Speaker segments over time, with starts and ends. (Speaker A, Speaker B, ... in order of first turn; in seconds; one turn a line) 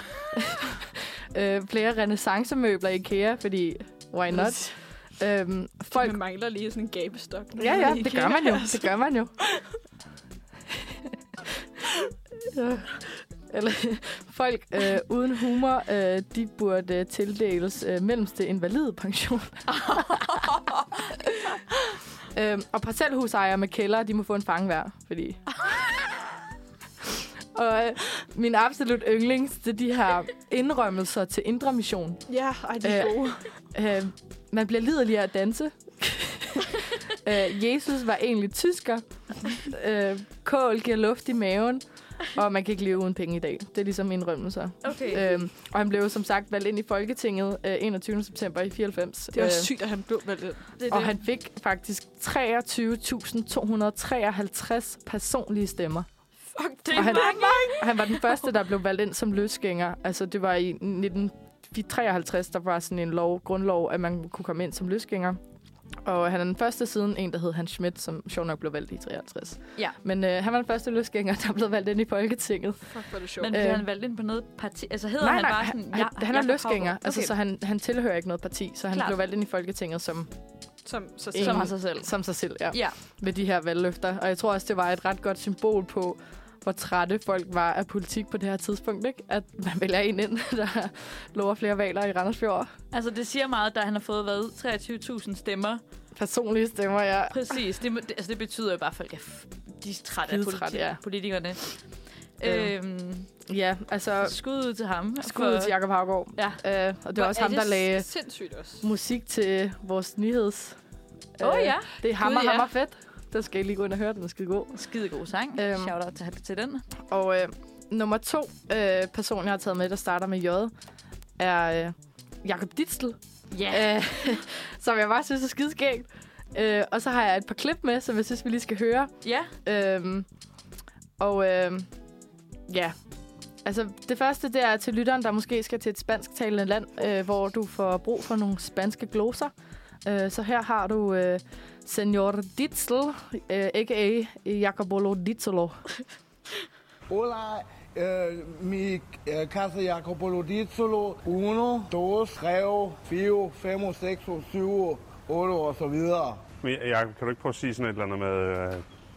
Speaker A: 0.3-6.2
Speaker B: 4.3-4.8
Speaker B: 5.9-9.6
Speaker A: 7.6-9.3
Speaker A: 12.4-20.3
Speaker C: 19.8-20.2
Speaker A: 22.3-25.4
Speaker A: 27.2-32.2
Speaker B: 32.3-33.5
Speaker A: 32.8-49.7
Speaker C: 44.8-45.2
Speaker B: 49.3-50.7
Speaker C: 50.8-51.1
Speaker A: 50.9-56.1
Speaker B: 56.6-57.9
Speaker C: 56.8-58.1
Speaker A: 56.9-65.4
Speaker A: 66.0-72.9
Speaker B: 72.9-73.6
Speaker C: 73.4-77.3
Speaker A: 73.5-73.8
Speaker A: 75.2-80.3
Speaker B: 80.8-81.7
Speaker A: 81.3-92.7
Speaker C: 81.3-82.1
Speaker C: 82.7-83.0
Speaker C: 92.9-95.8
Speaker A: 96.1-97.6
Speaker C: 97.3-101.7
Speaker A: 100.2-101.0
Speaker C: 102.4-103.3
Speaker A: 102.4-102.7
Speaker A: 103.5-104.4
Speaker C: 104.2-105.8
Speaker A: 105.2-108.1
Speaker C: 106.3-106.6
Speaker B: 107.1-108.8
Speaker A: 108.8-110.8
Speaker A: 111.4-114.8
Speaker C: 111.4-111.9
Speaker B: 112.1-112.7
Speaker C: 114.7-116.8
Speaker A: 115.5-115.9
Speaker A: 117.1-120.7
Speaker A: 121.4-130.3
Speaker C: 123.5-124.0
Speaker C: 129.2-129.5
Speaker A: 131.2-131.9
Speaker A: 132.7-132.9
Speaker A: 133.6-139.5
Speaker A: 140.0-145.8
Speaker D: 147.1-156.4
Speaker E: 156.6-158.8